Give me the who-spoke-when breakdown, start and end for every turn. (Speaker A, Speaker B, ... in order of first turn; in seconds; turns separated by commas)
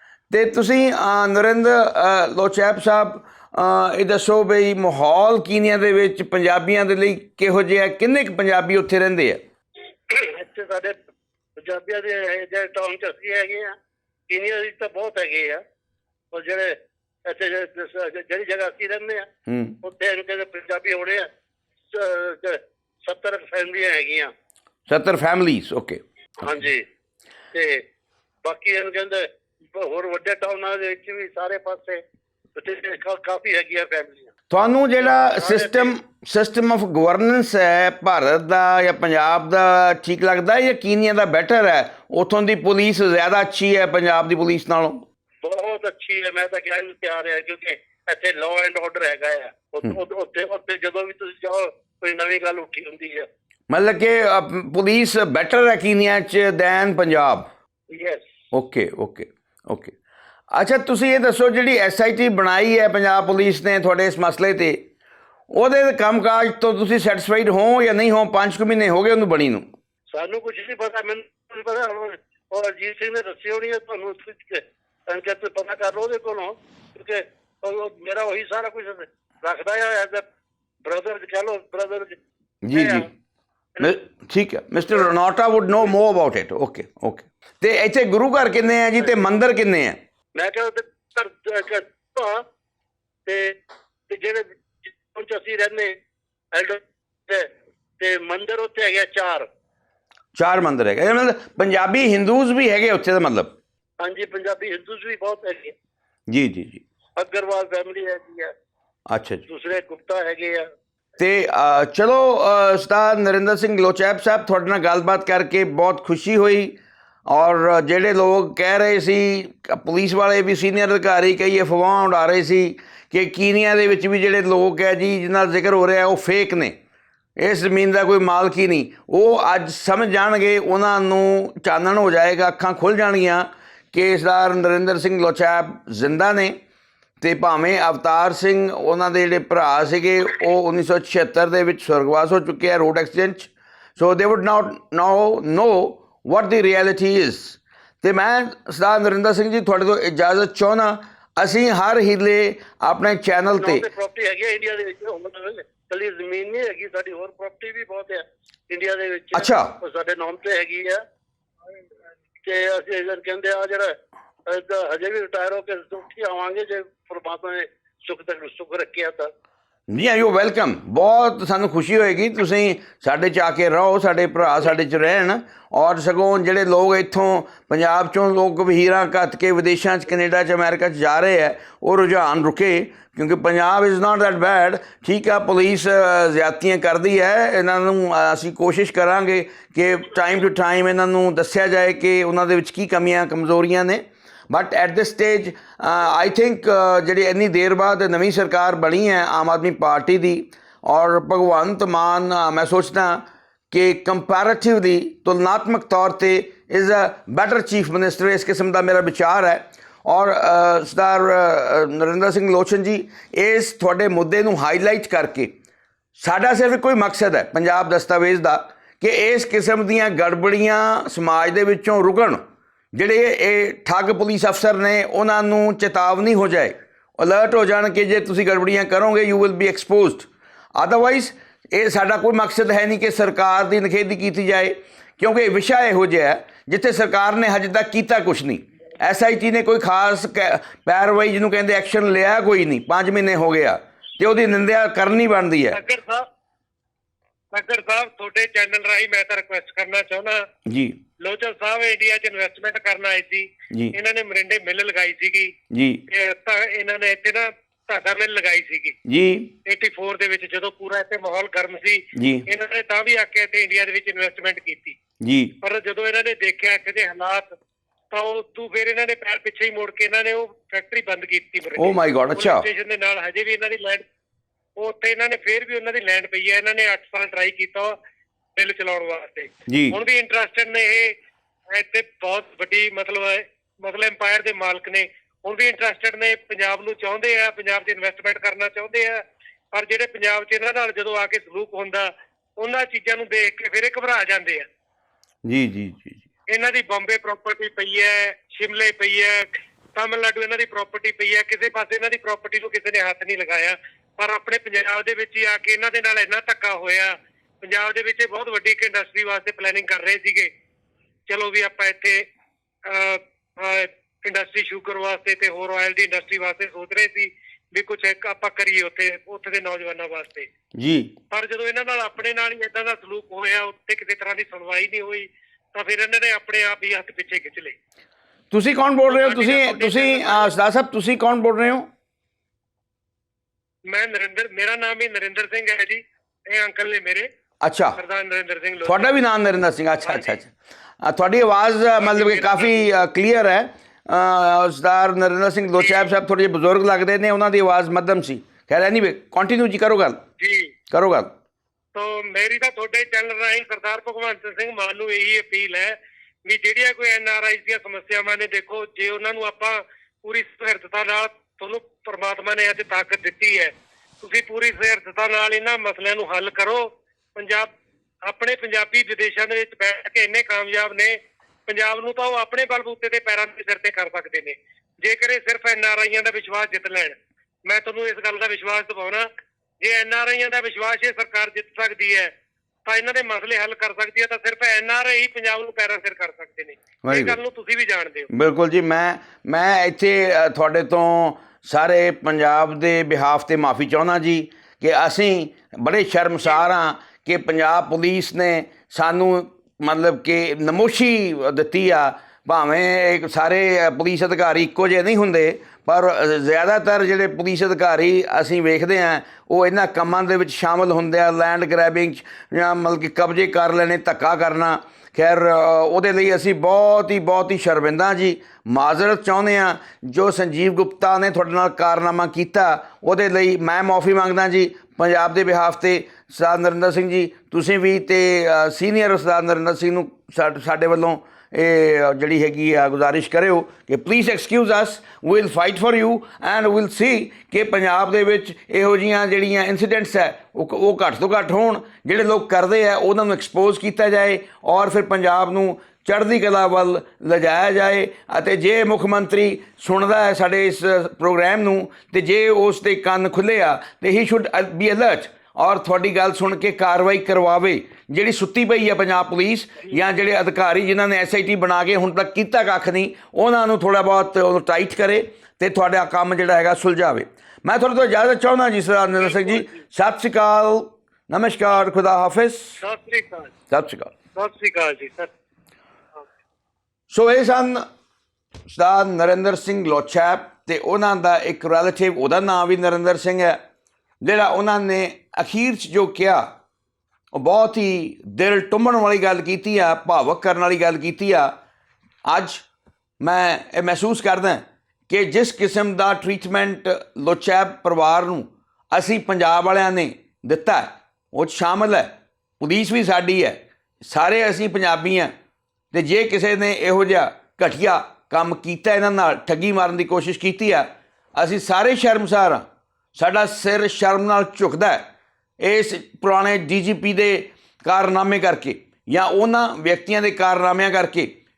Speaker A: 0.3-9.4, Speaker B: 10.1-10.9, Speaker B: 11.6-13.8, Speaker B: 14.3-15.6, Speaker B: 16.3-19.3, Speaker A: 19.5-19.8, Speaker B: 19.8-21.3, Speaker B: 21.9-24.3, Speaker A: 24.9-26.0, Speaker B: 26.4-26.9, Speaker B: 27.5-27.8, Speaker B: 28.4-32.0, Speaker B: 32.5-34.3, Speaker A: 34.5-45.0, Speaker B: 35.0-36.0, Speaker B: 45.4-53.3, Speaker A: 53.7-57.5, Speaker B: 57.9-58.3, Speaker A: 58.5-59.9, Speaker A: 60.5-64.8, Speaker A: 65.5-69.7, Speaker B: 70.1-80.2, Speaker B: 80.8-82.2, Speaker A: 82.6-83.1, Speaker B: 82.7-83.1, Speaker A: 83.8-90.0, Speaker B: 90.3-92.4, Speaker B: 93.2-96.0, Speaker B: 96.5-99.5, Speaker A: 100.3-103.5, Speaker B: 104.0-105.8, Speaker A: 106.3-106.8, Speaker B: 107.2-108.5, Speaker A: 109.1-109.4, Speaker B: 109.5-110.7, Speaker A: 111.2-126.8, Speaker A: 127.4-136.6, Speaker A: 137.2-153.8, Speaker B: 153.5-161.0, Speaker A: 159.3-159.7, Speaker B: 162.4-169.3, Speaker A: 169.9-215.5, Speaker A: 216.2-222.4, Speaker A: 222.9-245.8, Speaker C: 245.7-246.3, Speaker C: 247.5-250.5, Speaker A: 250.7-251.0, Speaker C: 251.2-255.5, Speaker A: 255.7-256.0, Speaker C: 256.1-259.0, Speaker A: 259.1-259.5, Speaker C: 259.6-264.9, Speaker A: 262.1-262.4, Speaker A: 265.2-265.5, Speaker C: 265.6-267.6, Speaker C: 268.1-274.0, Speaker A: 271.8-272.6, Speaker C: 274.8-277.9, Speaker C: 278.6-281.1, Speaker A: 279.7-280.0, Speaker C: 281.7-294.7, Speaker A: 295.4-296.2, Speaker C: 296.5-310.5, Speaker C: 311.3-312.3, Speaker C: 312.8-320.5, Speaker A: 320.7-321.1, Speaker C: 321.3-327.8, Speaker A: 328.5-331.9, Speaker C: 329.1-330.5, Speaker C: 333.9-337.3, Speaker A: 337.6-338.0, Speaker C: 338.0-339.1, Speaker A: 338.8-350.2, Speaker C: 340.0-340.4, Speaker C: 342.0-342.9, Speaker C: 345.8-346.1, Speaker C: 350.4-350.7, Speaker A: 350.9-351.3, Speaker C: 351.9-367.7, Speaker C: 368.2-379.3, Speaker C: 379.8-382.3, Speaker C: 382.9-388.3, Speaker A: 387.0-387.4, Speaker A: 388.3-472.8, Speaker B: 469.3-469.7, Speaker B: 472.8-473.5, Speaker A: 473.7-474.1, Speaker C: 474.4-475.3, Speaker A: 477.1-477.9, Speaker A: 478.7-483.6, Speaker A: 484.2-486.5, Speaker A: 487.3-491.5, Speaker A: 492.2-492.6, Speaker A: 493.2-505.3, Speaker A: 505.9-515.1, Speaker A: 515.6-521.3